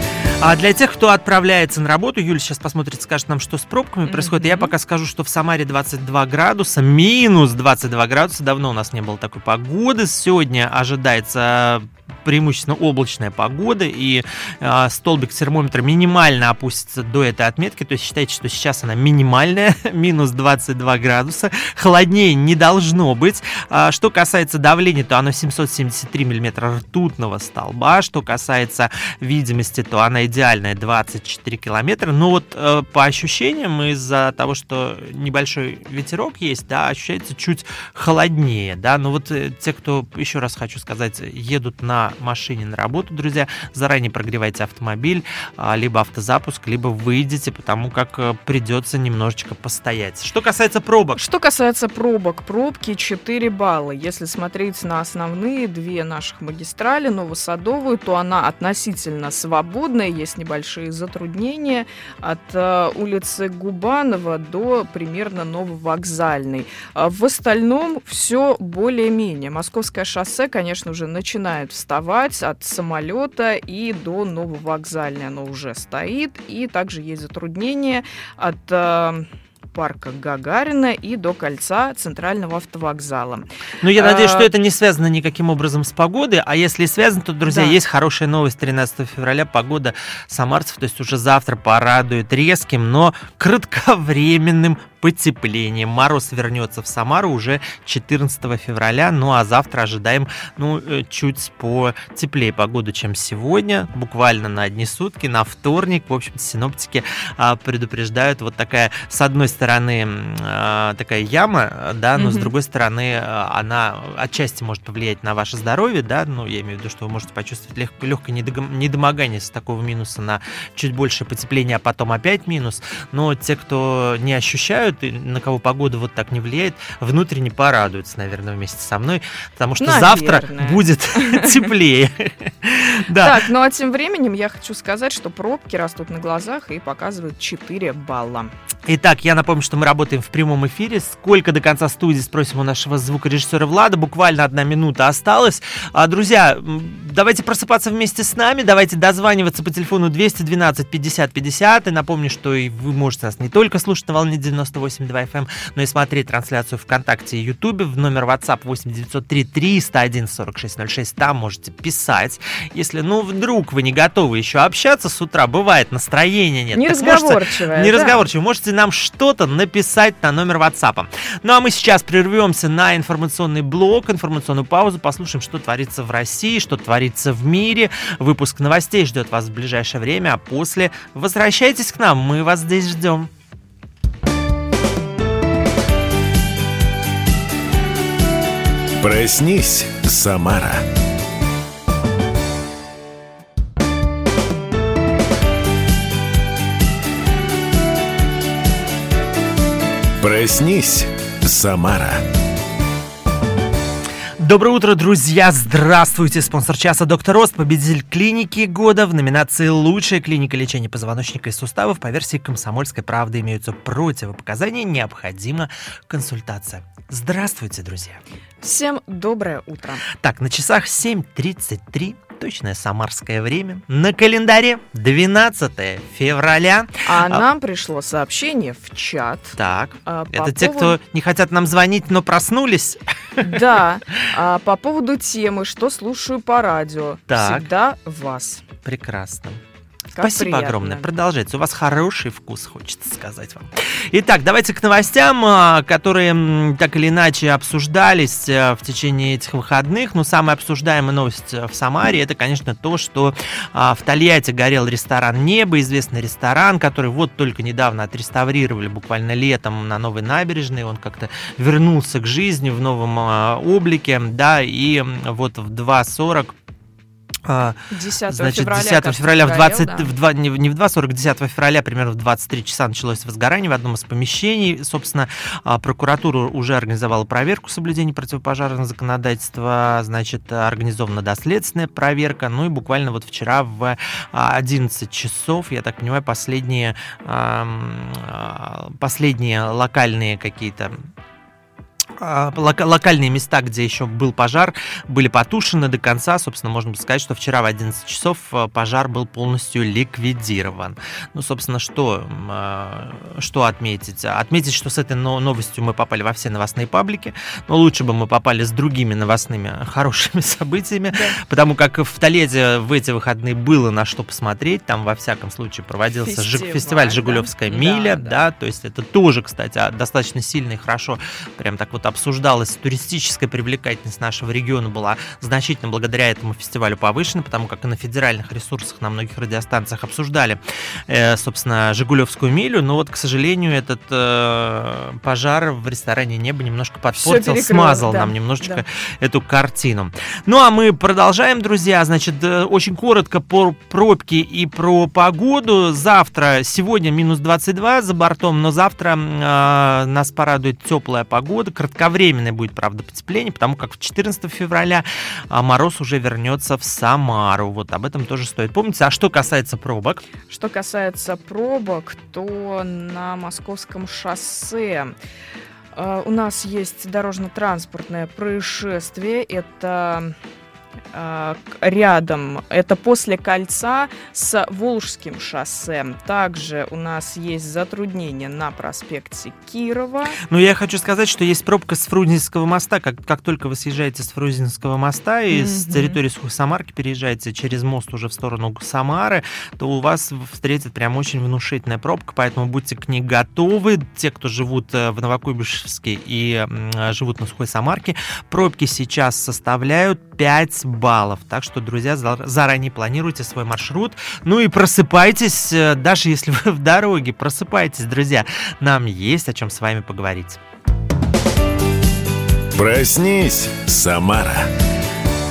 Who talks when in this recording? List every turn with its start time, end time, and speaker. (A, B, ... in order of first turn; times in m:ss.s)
0:00.4-0:51.2 A
0:04.1-0:04.7 B
0:51.2-1:24.5 B
1:23.8-2:13.4 A
1:27.5-1:27.8 B
1:52.2-1:52.5 B
2:09.8-2:11.7 B
2:13.2-2:18.5 B
2:18.9-3:03.3 A
2:46.7-2:48.2 B
3:09.0-3:10.8 C
3:20.2-3:22.2 C
3:24.4-3:38.2 A
3:38.6-3:40.0 B
3:40.2-3:47.4 A
3:47.0-3:51.0 B
3:49.6-3:53.6 A
3:53.4-3:58.6 B
3:57.3-3:57.7 A
3:58.8-3:59.6 A
4:00.1-4:01.0 B
4:00.2-4:26.5 A
4:27.5-4:51.0 A
4:27.9-4:30.1 B
4:52.2-6:00.2 A
5:11.1-5:11.4 B
5:16.2-5:18.4 B
5:37.2-5:38.8 B
6:00.5-6:05.2 B
6:06.0-6:10.3 B
6:11.1-6:20.4 B
6:20.5-6:50.6 A
6:25.5-6:26.2 B
6:52.8-6:54.7 C